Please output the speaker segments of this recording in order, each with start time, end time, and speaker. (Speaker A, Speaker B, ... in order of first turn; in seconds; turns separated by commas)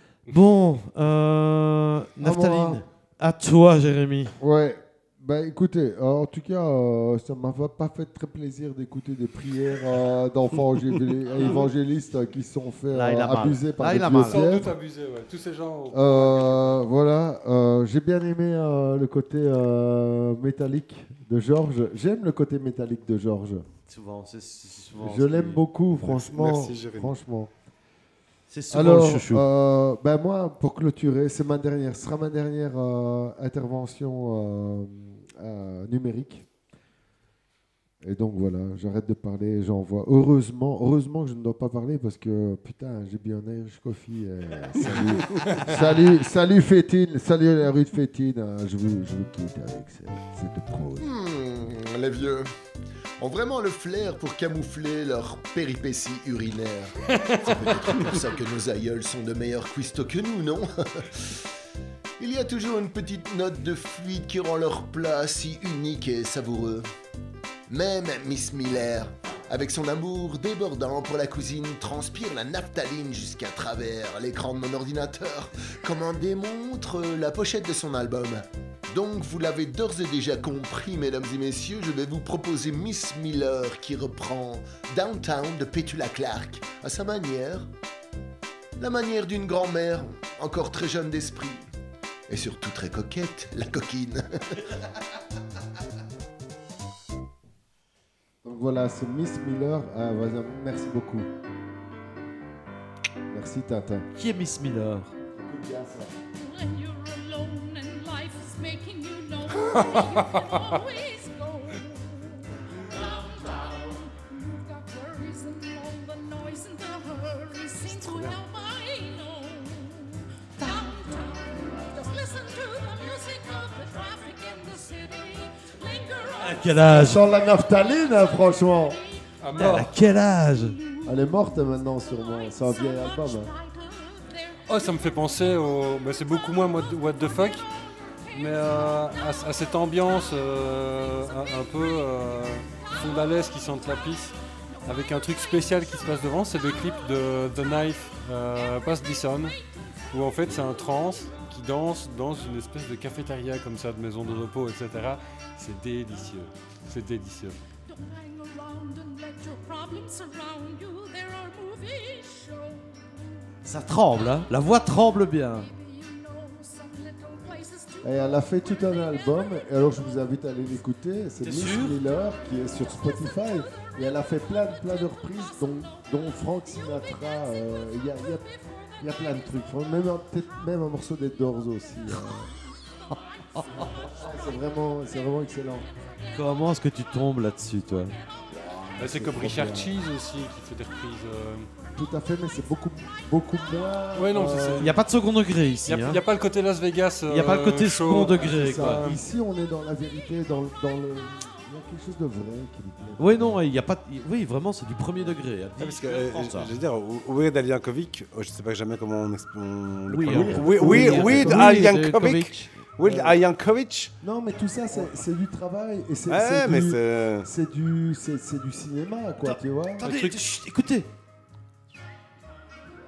Speaker A: 0.3-4.3, Speaker B: 2.2-2.8, Speaker B: 4.4-14.7, Speaker A: 12.9-14.5, Speaker C: 14.2-16.8, Speaker B: 15.9-23.7, Speaker A: 23.9-25.6, Speaker B: 25.0-27.5, Speaker D: 25.9-27.1, Speaker A: 28.5-29.4, Speaker B: 28.7-36.5, Speaker B: 38.0-51.1, Speaker D: 44.8-45.5, Speaker C: 45.4-45.8, Speaker E: 51.0-52.5, Speaker E: 53.2-61.4, Speaker C: 57.3-58.0, Speaker E: 62.2-66.9, Speaker E: 67.7-87.7, Speaker E: 88.8-91.7, Speaker E: 92.3-94.7, Speaker B: 98.4-101.3, Speaker B: 103.3-104.1, Speaker A: 104.2-105.1, Speaker B: 105.3-106.1, Speaker F: 106.3-127.6, Speaker D: 117.9-118.2, Speaker A: 126.4-127.2, Speaker B: 126.9-129.0, Speaker C: 129.4-129.9, Speaker A: 129.6-130.8, Speaker F: 130.4-135.0, Speaker B: 131.1-133.5, Speaker C: 134.7-137.7, Speaker C: 138.3-149.6, Speaker C: 150.1-157.6, Speaker F: 157.9-163.5, Speaker A: 163.6-165.7, Speaker F: 165.5-168.7, Speaker B: 168.0-178.5, Speaker A: 171.4-172.0, Speaker B: 179.0-182.5, Speaker B: 183.8-185.9, Speaker A: 186.3-188.2, Speaker B: 188.8-189.9, Speaker C: 189.0-191.7, Speaker B: 192.0-194.9, Speaker C: 194.1-195.0, Speaker A: 194.8-196.2, Speaker C: 195.9-199.2, Speaker A: 197.3-199.0, Speaker B: 198.3-203.6, Speaker A: 203.2-206.7, Speaker D: 205.8-214.1, Speaker A: 210.1-212.8, Speaker B: 210.3-211.9, Speaker B: 213.0-213.4, Speaker B: 214.2-220.1, Speaker D: 216.3-217.5, Speaker A: 219.4-221.1, Speaker C: 220.0-220.4